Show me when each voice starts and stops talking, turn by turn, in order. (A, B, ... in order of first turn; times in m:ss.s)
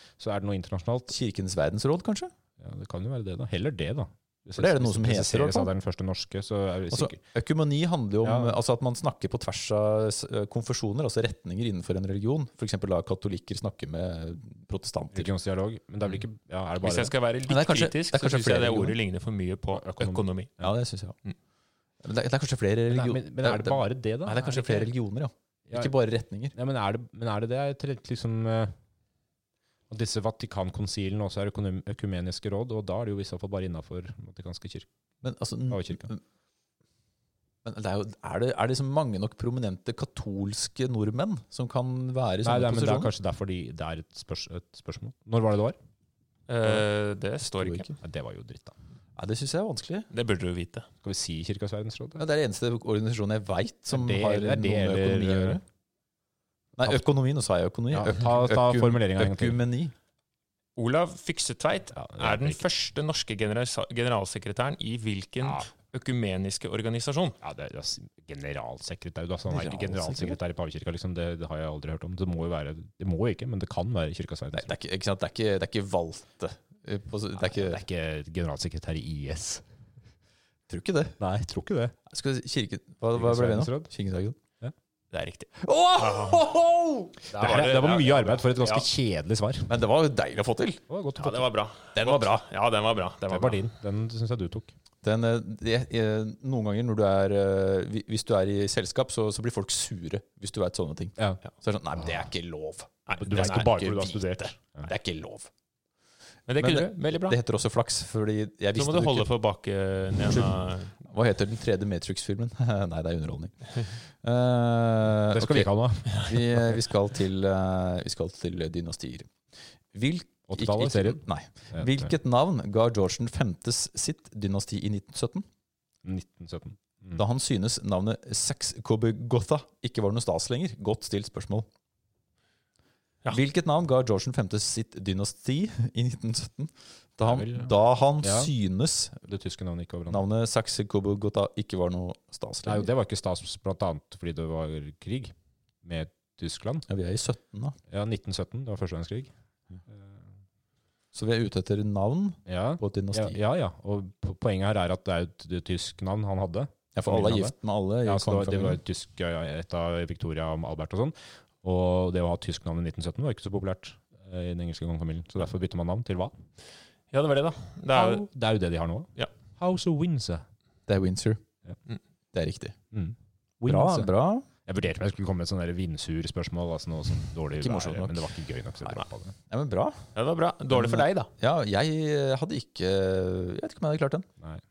0:00.2-0:01.1 A
0:01.1-0:02.3 B
0:02.6-0:07.2 A
0:04.6-0:05.7 B
0:06.9-0:15.3 B
0:08.2-0:08.6 A
0:15.1-0:17.1 A
0:16.8-0:20.5 C
0:17.5-0:19.0 B
0:19.7-0:20.7 A
0:20.6-0:21.2 B
0:22.0-0:26.5 B
0:22.9-0:24.9 A
0:26.5-0:28.7 A
0:29.9-0:34.9 A
0:35.2-0:36.2 B
0:35.7-0:36.1 A
0:37.6-0:43.1 B
0:42.4-0:45.8 A
0:46.5-0:47.9 C
0:47.5-0:47.9 B
0:48.0-0:48.7 A
0:49.2-0:50.1 B
0:50.1-0:50.9 C
0:51.0-0:52.2 A
0:52.2-0:55.6 B
0:53.9-0:55.6 A
0:56.8-0:59.9 B
0:57.9-0:59.6 A
1:00.8-1:07.4 C
1:01.9-1:02.6 A
1:07.4-1:14.7 A
1:09.5-1:10.4 B
1:14.5-1:17.8 B
1:17.4-1:19.6 A
1:20.7-1:21.2 B
1:21.2-1:21.9 A
1:22.1-1:24.4 B
1:23.1-1:23.9 A
1:25.1-1:26.5 C
1:25.6-1:27.2 B
1:27.3-1:28.8 C
1:27.3-1:29.7 A
1:29.7-1:30.8 B
1:30.9-1:31.5 A
1:31.2-1:33.6 C
1:31.9-1:32.4 B
1:33.3-1:34.7 A
1:35.0-1:45.5 B
1:43.1-1:43.7 C
1:43.2-1:44.9 A
1:46.5-1:47.4 C
1:46.6-1:49.3 B
1:48.7-1:50.9 C
1:50.2-1:59.3 B
1:55.3-1:56.7 A
1:59.9-2:05.4 B
2:00.5-2:01.2 A
2:01.7-2:02.1 A
2:06.0-2:07.2 A
2:07.1-2:11.6 B
2:13.3-2:19.2 B
2:17.2-2:18.5 A
2:19.2-2:20.2 A
2:20.1-2:22.9 B
2:22.6-2:26.8 A
2:26.9-2:27.8 B
2:27.9-2:29.3 A
2:29.9-2:30.1 A
2:31.1-2:33.4 B
2:32.5-2:46.3 A
2:36.9-2:38.8 B
2:47.1-2:48.2 C
2:47.9-2:50.4 A
2:50.9-2:51.4 B
2:52.3-2:52.8 B
2:52.9-2:54.1 A
2:53.6-2:54.4 B
2:54.6-2:59.3 A
2:57.6-2:58.2 B
2:59.5-3:00.1 B
3:00.1-3:01.3 C
3:00.7-3:04.3 B